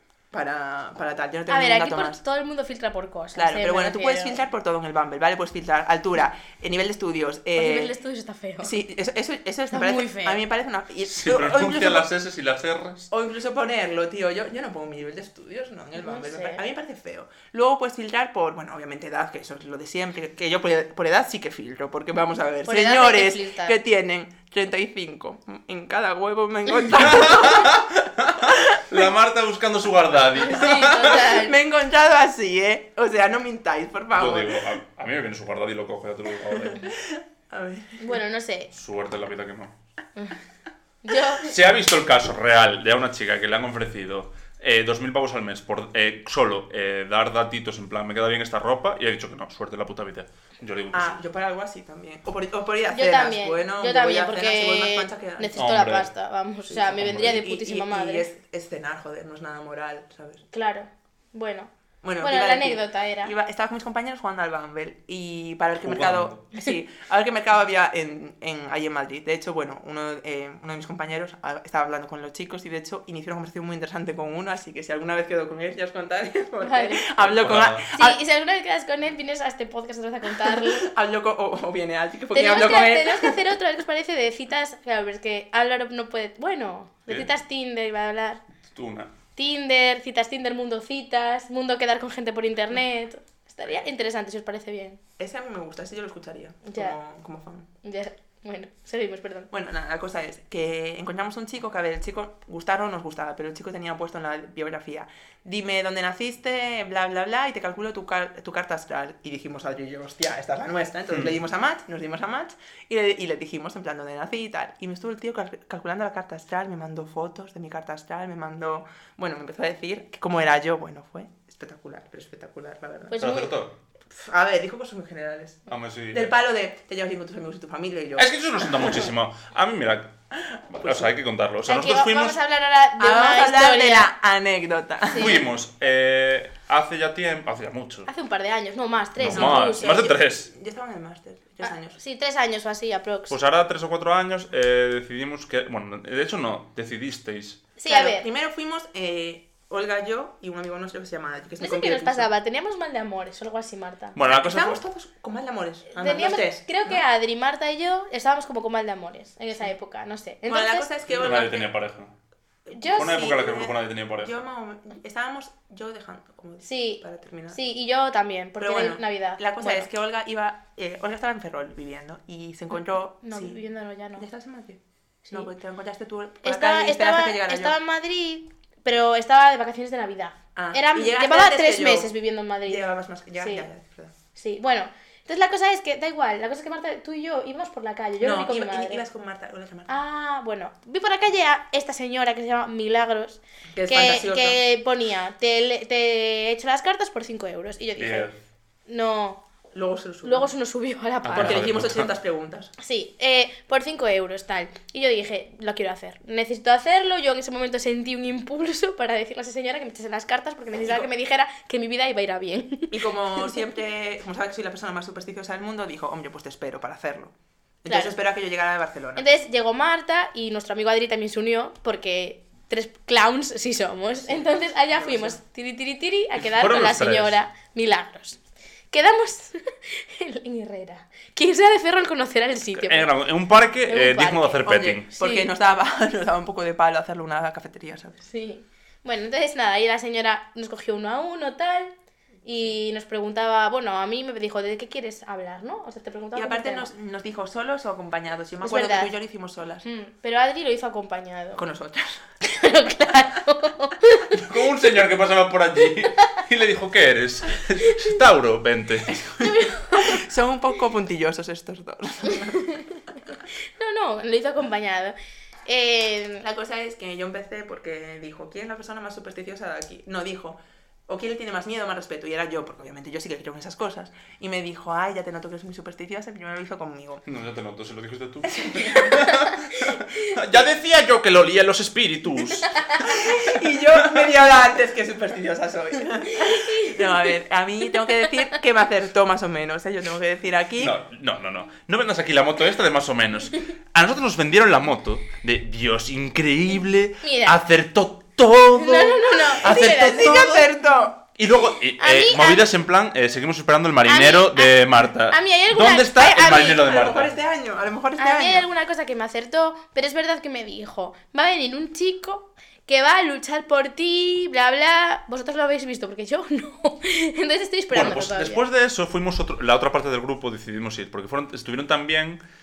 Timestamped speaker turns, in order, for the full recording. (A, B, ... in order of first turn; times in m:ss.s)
0:00.3-0:02.2 A
0:01.5-0:04.4 B
0:03.3-0:07.9 A
0:07.5-0:08.8 B
0:08.6-0:12.1 A
0:09.7-0:10.4 B
0:11.1-0:13.1 C
0:13.1-0:27.8 A
0:16.0-0:16.6 B
0:22.6-0:23.8 B
0:26.9-0:31.2 C
0:28.4-0:29.0 A
0:30.4-0:31.5 B
0:30.5-0:34.6 A
0:34.1-0:36.8 C
0:36.5-0:38.2 A
0:38.0-0:38.7 B
0:38.7-0:39.7 C
0:41.0-0:41.5 B
0:41.4-0:51.2 C
0:50.9-0:55.7 A
0:52.9-0:58.3 B
0:55.6-0:56.1 C
0:56.7-1:00.4 A
0:56.8-0:57.4 C
1:00.5-1:01.7 B
1:02.0-1:18.2 A
1:02.2-1:03.3 B
1:05.8-1:06.4 C
1:16.6-1:17.0 B
1:17.2-1:17.8 C
1:17.9-1:20.9 B
1:20.4-1:23.4 A
1:22.3-1:28.4 B
1:28.7-1:29.1 C
1:29.3-1:35.0 B
1:35.2-1:37.7 A
1:36.6-1:37.0 B
1:37.8-1:39.5 B
1:39.5-2:03.2 A
2:03.1-2:03.5 B
2:03.2-2:03.7 C
2:04.1-2:09.1 A
2:05.7-2:06.3 C
2:08.2-2:10.2 C
2:10.7-2:12.4 C
2:10.8-2:11.1 A
2:11.7-2:14.1 B
2:13.0-2:15.4 A
2:15.0-2:15.4 B
2:15.1-2:18.1 C
2:18.1-2:20.1 B
2:19.2-2:20.5 C
2:19.3-2:22.0 A
2:21.6-2:23.4 B
2:23.3-2:27.6 C
2:27.8-2:28.2 B
2:27.9-2:32.3 A
2:31.6-2:34.2 B
2:34.1-2:34.8 C
2:34.2-2:37.0 A
2:35.9-2:40.9 B
2:40.4-2:41.7 A
2:41.1-2:42.1 C
2:42.7-2:47.6 A
2:42.7-2:43.3 B
2:42.9-2:44.4 C
2:46.6-2:49.9 B
2:48.6-2:53.6 A
2:53.2-2:54.2 B
2:54.2-2:57.8 A
2:56.4-3:02.8 B
3:00.5-3:02.1 A
3:02.6-3:04.1 A
3:03.4-3:03.7 B
3:04.3-3:09.0 B
3:08.2-3:10.0 A
3:09.9-3:18.3 B
3:13.7-3:14.6 A
3:18.0-3:18.3 C
3:18.9-3:19.4 B
3:19.7-3:20.5 A
3:20.2-3:21.7 B
3:21.2-3:22.1 C
3:21.4-3:22.7 A
3:22.8-3:33.5 B
3:30.8-3:31.1 A
3:32.9-3:39.2 A
3:37.9-3:38.1 B
3:39.2-3:48.4 B
3:44.2-3:45.4 A
3:46.4-3:47.4 C
3:48.9-3:53.1 B
3:52.7-3:55.1 C
3:53.9-3:55.5 B
3:54.6-3:58.2 A
3:58.2-4:01.9 B
4:02.4-4:06.9 B
4:06.3-4:09.8 A
4:08.6-4:09.1 B
4:09.8-4:11.6 B
4:11.6-4:12.2 A
4:12.4-4:14.4 B
4:14.3-4:19.4 C
4:19.4-4:20.2 B
4:19.9-4:22.8 A
4:22.3-4:22.8 B
4:23.8-4:25.1 B
4:25.6-4:26.4 B
4:26.4-4:37.2 A
4:37.3-4:43.4 C
4:38.4-4:39.2 A
4:39.2-4:39.5 B
4:43.0-4:51.0 A
4:46.3-4:47.3 B
4:50.8-5:00.6 C
4:57.2-4:57.6 B
4:58.7-5:00.6 B
4:59.6-5:01.2 A
5:01.4-5:07.3 C
5:02.0-5:02.6 B
5:04.0-5:06.8 B
5:06.5-5:08.7 A
5:08.2-5:18.6 B
5:17.9-5:22.4 C